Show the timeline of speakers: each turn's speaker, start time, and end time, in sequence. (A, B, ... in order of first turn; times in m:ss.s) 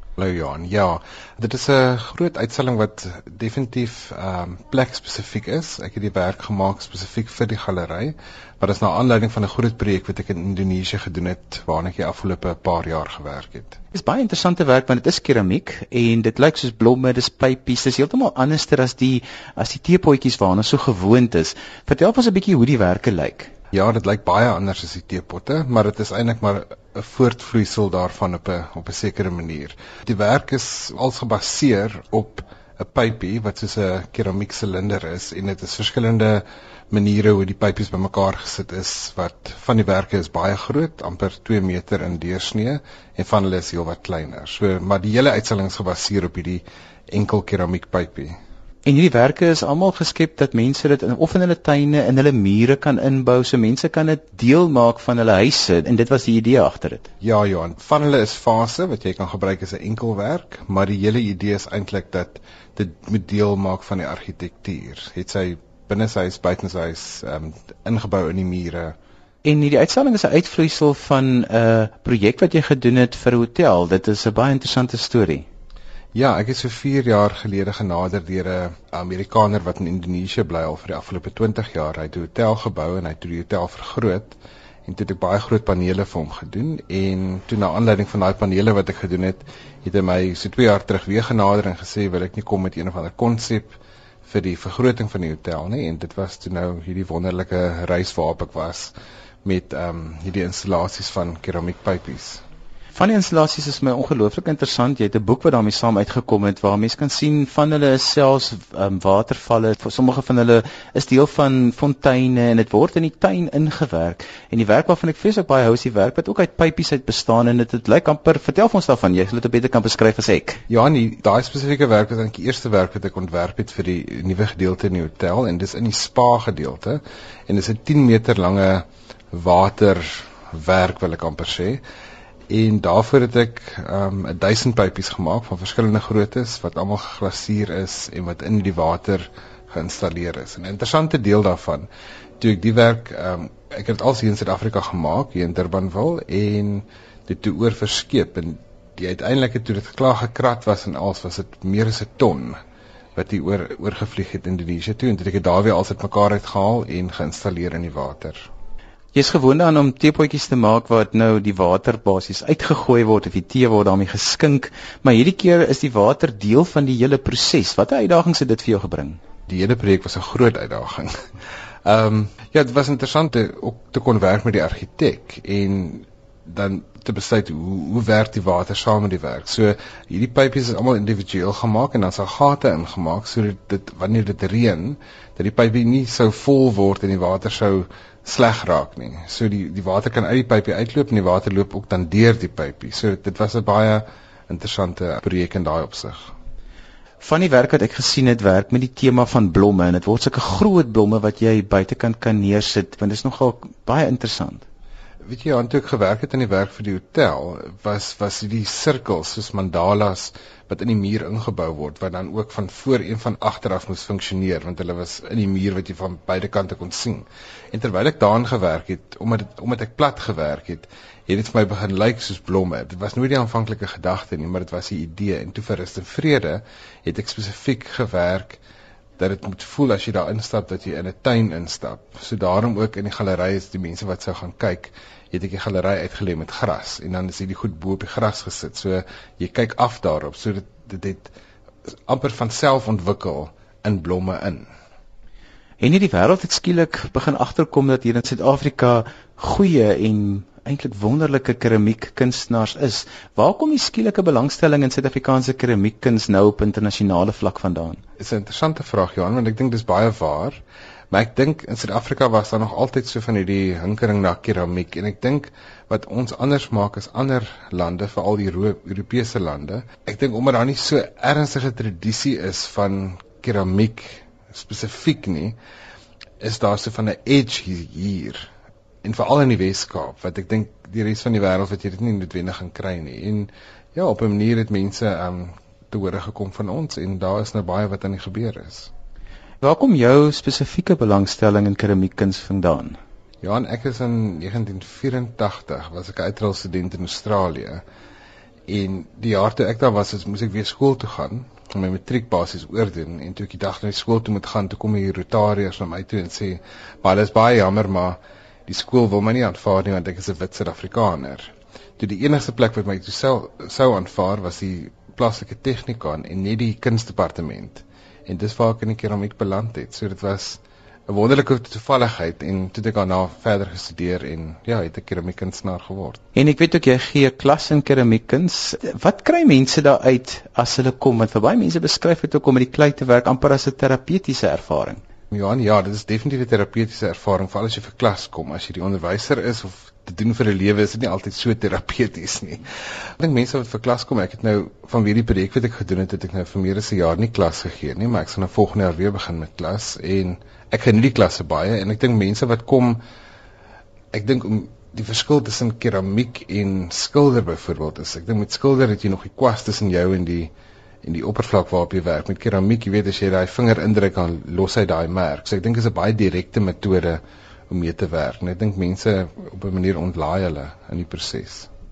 0:00.2-0:13.8 A
0:13.9-0:23.5 B
0:23.7-0:48.4 A
0:48.8-0:57.1 B
0:57.2-1:09.0 A
1:09.4-1:15.4 B
1:16.2-1:42.4 A
1:42.9-2:00.6 B
2:00.7-2:11.8 A
2:12.5-2:21.9 A
2:22.4-2:32.6 A
2:33.2-2:38.5 A
2:39.1-2:49.2 B
2:49.5-2:51.1 A
2:51.8-3:16.3 A
3:17.2-3:24.6 B
3:25.2-3:48.6 A
3:49.2-4:01.3 A
4:02.1-4:04.6 A
4:05.8-4:18.0 B
4:18.2-4:20.6 A
4:21.1-4:35.6 A
4:36.4-4:38.5 A
4:39.0-4:48.9 A
4:49.6-4:53.0 B
4:53.4-4:57.8 A
4:58.7-5:26.2 A
5:26.4-5:35.0 B
5:35.3-5:42.6 A
5:43.2-5:53.0 A
5:54.1-6:00.5 A
6:01.0-6:11.7 A